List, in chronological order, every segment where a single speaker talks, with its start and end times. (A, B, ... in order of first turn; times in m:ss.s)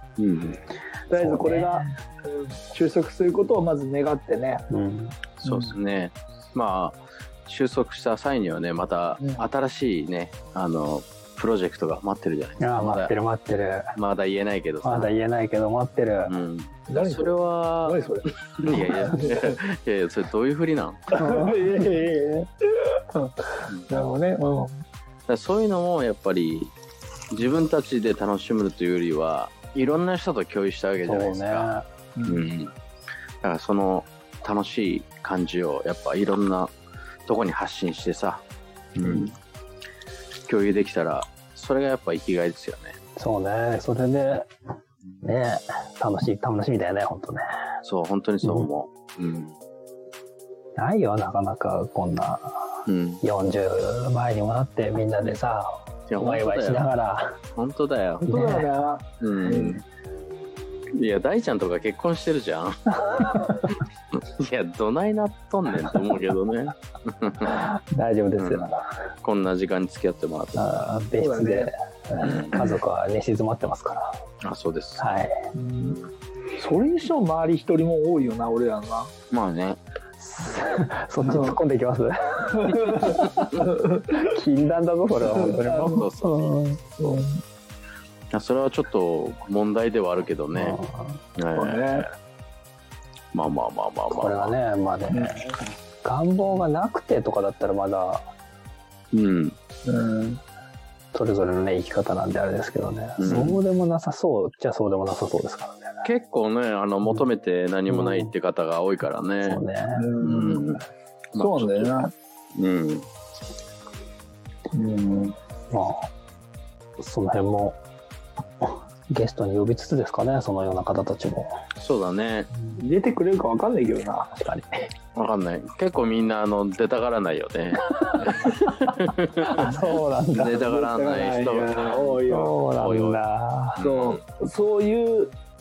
0:00.2-0:00.6 A
0:01.1-0:04.6 B
0:01.1-0:01.9 C
0:04.7-0:05.2 C
0:05.4-0:13.1 A
0:05.4-0:05.8 B
0:09.2-0:09.5 B
0:12.6-0:14.0 C
0:14.0-0:15.1 A
0:14.8-0:16.4 C
0:16.2-0:21.0 A
0:16.9-0:19.5 B
0:21.1-0:24.8 B
0:21.2-0:21.7 C
0:23.7-0:24.0 A
0:25.3-0:26.7 A
0:27.3-0:31.7 A
0:31.0-0:31.9 C
0:32.2-0:32.5 B
0:32.2-0:32.7 A
0:33.4-0:36.7 A
0:37.3-0:38.4 A
0:39.0-0:39.3 A
0:39.0-0:39.3 C
0:40.5-0:43.0 A
0:43.2-0:44.5 C
0:45.2-0:47.4 C
0:47.8-0:49.5 A
0:48.4-0:48.7 C
0:50.8-0:57.4 C
0:52.9-0:53.2 A
0:56.1-0:56.9 A
0:57.6-0:58.3 A
0:58.2-0:58.7 C
0:58.2-0:59.8 B
0:59.2-0:59.8 A
1:01.0-1:03.0 A
1:03.1-1:03.5 C
1:04.2-1:07.7 A
1:07.5-1:08.8 C
1:08.4-1:10.9 A
1:10.5-1:14.2 C
1:11.2-1:11.7 B
1:12.2-1:12.6 A
1:14.4-1:15.0 A
1:15.0-1:15.5 C
1:15.5-1:16.0 B
1:16.6-1:19.1 B
1:19.3-1:19.8 A
1:20.2-1:26.8 C
1:21.2-1:21.6 B
1:22.9-1:24.0 B
1:25.4-1:26.0 B
1:25.4-1:26.6 A
1:27.0-1:27.4 B
1:28.3-1:30.8 A
1:30.5-1:31.2 C
1:31.4-1:32.1 A
1:31.5-1:32.1 B
1:33.3-1:34.5 A
1:34.1-1:38.2 C
1:35.1-1:35.5 B
1:39.1-1:39.6 A
1:39.9-1:40.4 B
1:41.1-1:46.0 C
1:43.2-1:43.6 A
1:46.0-1:49.6 A
1:47.9-1:48.3 C
1:49.4-1:50.1 C
1:50.0-1:50.6 B
1:50.2-1:52.0 A
1:51.4-1:52.1 B
1:52.6-1:53.0 A
1:54.7-1:55.4 B
1:55.7-1:56.1 C
1:57.0-1:57.8 C
1:58.6-2:01.6 C
2:01.8-2:02.5 A
2:02.5-2:02.8 C
2:02.8-2:04.3 B
2:04.3-2:04.9 C
2:05.1-2:09.7 A
2:09.6-2:10.6 C
2:10.3-2:12.6 B
2:10.4-2:12.2 A
2:12.3-2:13.8 C
2:12.8-2:13.2 A
2:13.8-2:14.2 A
2:13.8-2:15.3 B